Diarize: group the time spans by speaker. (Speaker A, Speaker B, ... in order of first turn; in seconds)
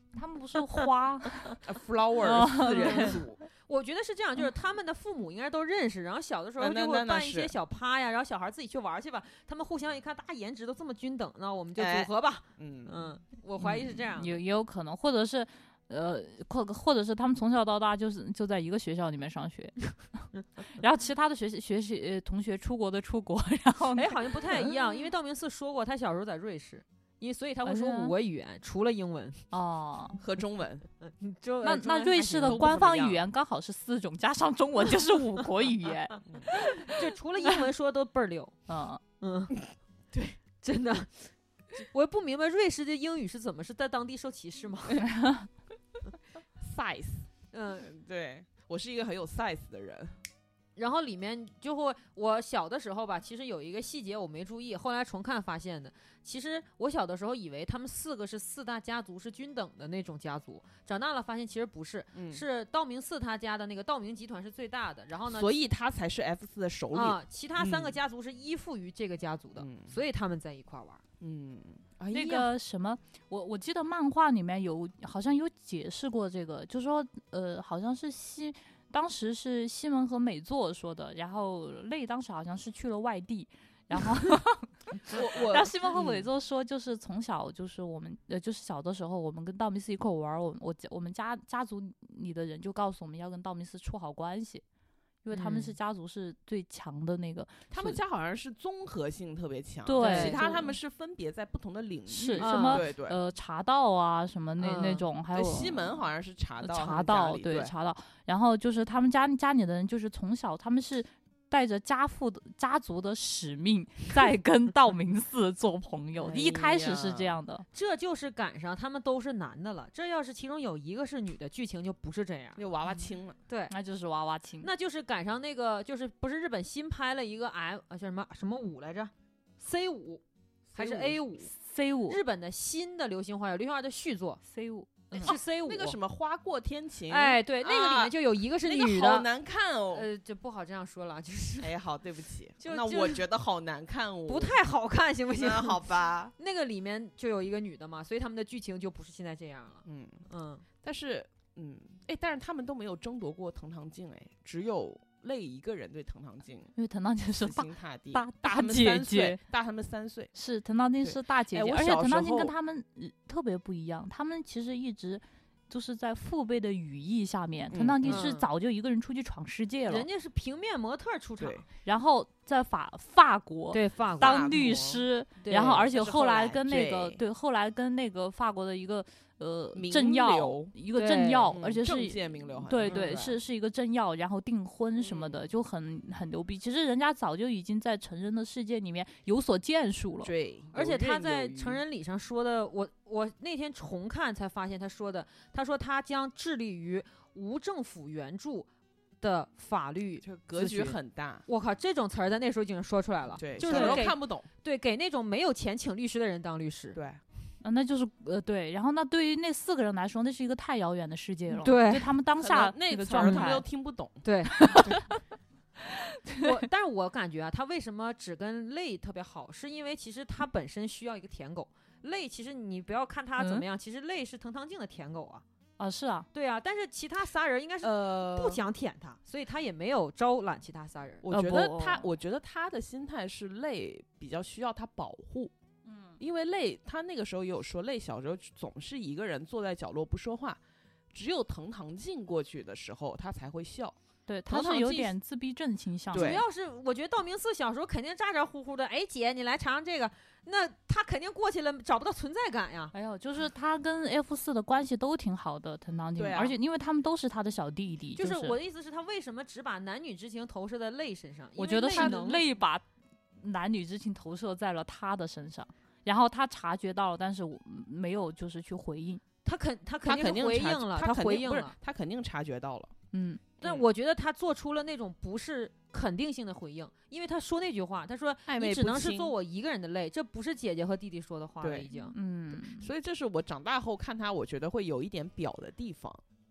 Speaker A: 0.1-1.6, 2.2-3.2, 13.6-24.7, 27.6-28.1, 29.5-30.2, 31.6-36.3, 38.7-39.0, 45.1-45.5, 72.1-94.6, 95.2-98.0, 99.8-100.7, 102.1-106.0, 106.6-117.7, 123.7-124.7, 131.5-132.2, 134.4-135.3, 156.8-159.4, 160.3-170.1, 171.8-190.3, 203.6-204.0, 207.6-213.6, 214.5-215.0, 215.9-216.6, 223.4-223.6, 225.8-226.3, 231.3-232.1, 235.8-236.2, 244.3-246.4, 252.9-258.6, 261.6-262.8, 263.4-269.2, 273.1-273.4, 282.0-282.9
Speaker B: 1.6-3.4, 6.6-7.5, 11.8-13.0, 30.2-30.9, 32.4-33.2, 40.1-40.4, 46.6-47.3, 47.8-50.1, 62.1-62.4, 65.3-68.0, 69.6-69.9, 71.2-72.5, 85.1-86.3, 97.7-103.2, 105.3-107.7, 116.3-117.4, 122.5-123.4, 130.7-131.2, 135.2-140.1, 141.6-144.6, 145.3-146.3, 149.8-150.2, 150.8-156.7, 157.3-160.3, 161.0-162.5, 167.7-168.3, 171.4-171.7, 174.2-177.2, 179.7-180.7, 181.5-183.3, 185.0-185.4, 190.2-191.8, 200.2-201.4, 203.4-204.5, 206.9-207.2, 212.4-214.2, 227.8-228.6, 231.2-235.5, 236.2-240.6, 241.1-243.9, 244.5-245.1, 246.1-246.4, 256.1-256.6, 270.0-272.9, 278.4-279.3, 281.6-281.9, 282.5-286.2
Speaker C: 2.8-14.4, 23.9-29.4, 31.0-32.8, 36.5-38.5, 39.2-39.5, 40.6-45.1, 47.5-47.9, 50.8-65.5, 66.9-71.0, 95.3-95.7, 100.0-100.6, 102.4-102.8, 104.6-105.0, 116.2-116.5, 117.7-122.6, 123.5-123.7, 124.6-130.2, 130.7-131.5, 132.1-134.4, 135.1-136.0, 137.1-139.3, 139.9-141.7, 142.6-143.2, 144.3-150.6, 168.1-168.5, 169.9-171.6, 173.7-174.8, 175.4-175.9, 180.9-181.6, 182.8-183.3, 190.7-198.7, 199.2-207.0, 211.5-212.1, 213.2-213.5, 214.2-215.0, 216.4-225.4, 226.3-231.2, 246.1-252.9, 258.1-262.4, 269.4-271.7, 273.6-282.1